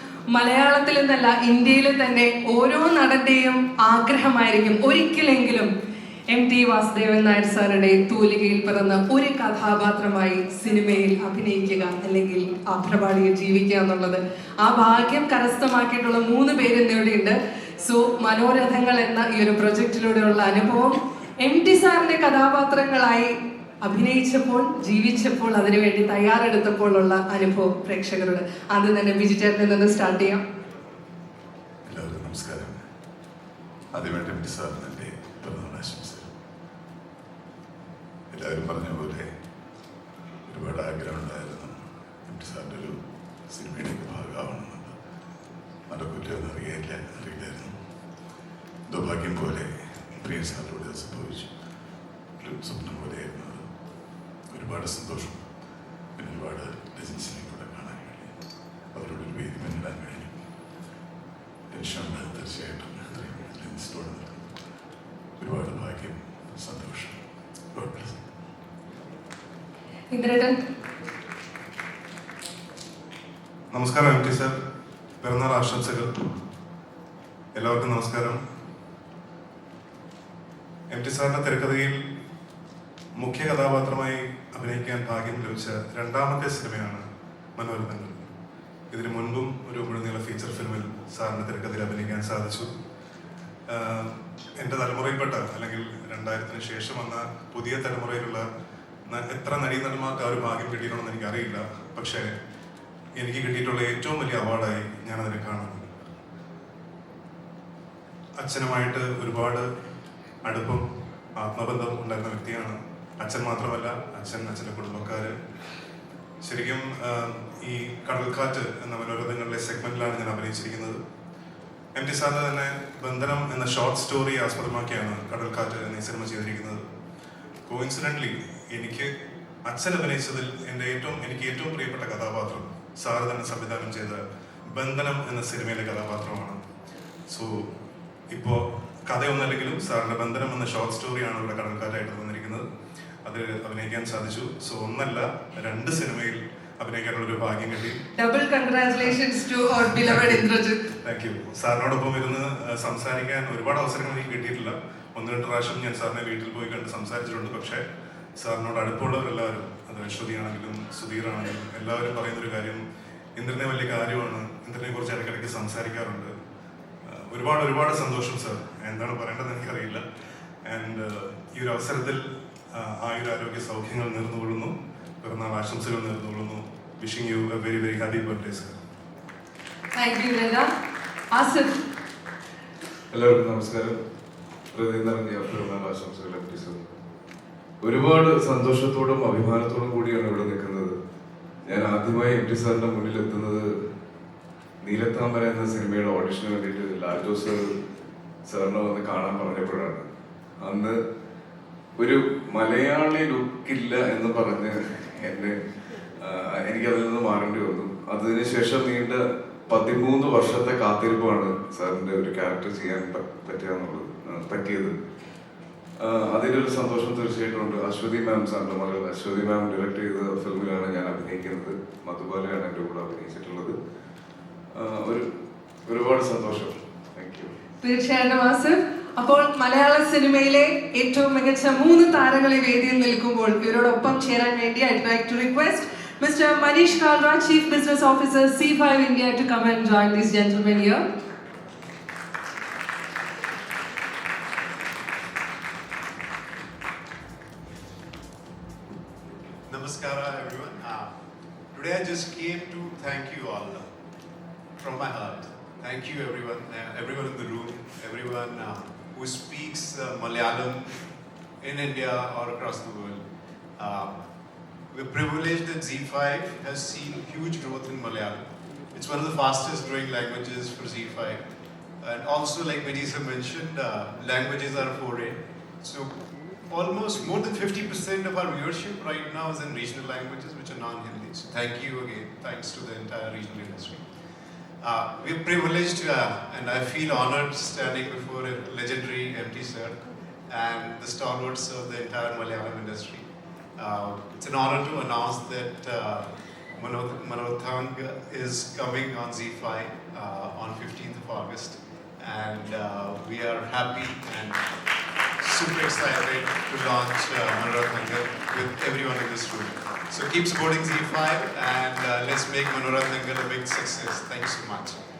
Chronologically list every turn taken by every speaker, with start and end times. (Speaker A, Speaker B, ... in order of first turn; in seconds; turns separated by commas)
Speaker A: 0.3-5.7, Speaker A: 6.3-30.4, Speaker B: 31.9-32.8, Speaker B: 33.9-36.3, Speaker B: 38.3-39.3, Speaker B: 40.5-44.9, Speaker B: 45.9-47.8, Speaker B: 48.9-51.5, Speaker B: 52.4-53.6, Speaker B: 54.5-55.4, Speaker B: 56.1-58.3, Speaker B: 58.9-60.3, Speaker B: 61.7-64.5, Speaker B: 65.4-67.2, Speaker B: 67.7-68.2, Speaker A: 70.1-70.6, Speaker C: 73.7-74.6, Speaker C: 75.2-76.1, Speaker C: 77.5-78.4, Speaker C: 80.9-82.0, Speaker C: 83.2-87.0, Speaker C: 87.5-88.3, Speaker C: 88.9-92.7, Speaker C: 93.7-98.4, Speaker C: 99.1-102.3, Speaker C: 103.2-105.8, Speaker C: 108.4-109.7, Speaker C: 110.4-110.8, Speaker C: 111.4-115.3, Speaker C: 116.4-121.0, Speaker C: 122.0-126.8, Speaker C: 127.7-129.1, Speaker C: 129.7-134.2, Speaker C: 134.7-136.6, Speaker C: 137.3-137.7, Speaker C: 138.3-142.6, Speaker C: 143.2-148.0, Speaker A: 148.1-150.8, Speaker C: 151.0-157.8, Speaker C: 158.4-162.8, Speaker C: 163.3-166.3, Speaker C: 167.0-170.0, Speaker C: 170.7-178.8, Speaker A: 179.9-180.7, Speaker A: 181.3-181.8, Speaker D: 183.1-183.9, Speaker D: 184.8-186.8, Speaker D: 187.8-190.9, Speaker D: 191.8-193.7, Speaker D: 194.8-197.6, Speaker B: 195.4-195.9, Speaker B: 196.9-197.3, Speaker B: 198.5-199.2, Speaker D: 198.5-199.9, Speaker B: 199.7-200.0, Speaker B: 202.0-205.4, Speaker D: 202.1-202.3, Speaker D: 206.7-209.2, Speaker B: 206.8-209.0, Speaker B: 209.7-212.8, Speaker D: 209.9-214.9, Speaker B: 213.3-214.8, Speaker D: 216.4-223.7, Speaker B: 216.8-217.8, Speaker B: 219.6-220.0, Speaker D: 224.8-225.2, Speaker D: 225.9-226.7, Speaker A: 227.8-241.0, Speaker E: 249.7-251.1, Speaker E: 251.7-253.8, Speaker E: 254.8-260.9, Speaker E: 261.6-263.2, Speaker E: 263.8-264.1, Speaker E: 264.9-268.4, Speaker E: 268.9-271.5, Speaker E: 272.0-276.1, Speaker E: 276.7-284.0, Speaker E: 284.8-289.9, Speaker E: 290.5-293.2, Speaker E: 293.8-304.6, Speaker E: 305.4-315.0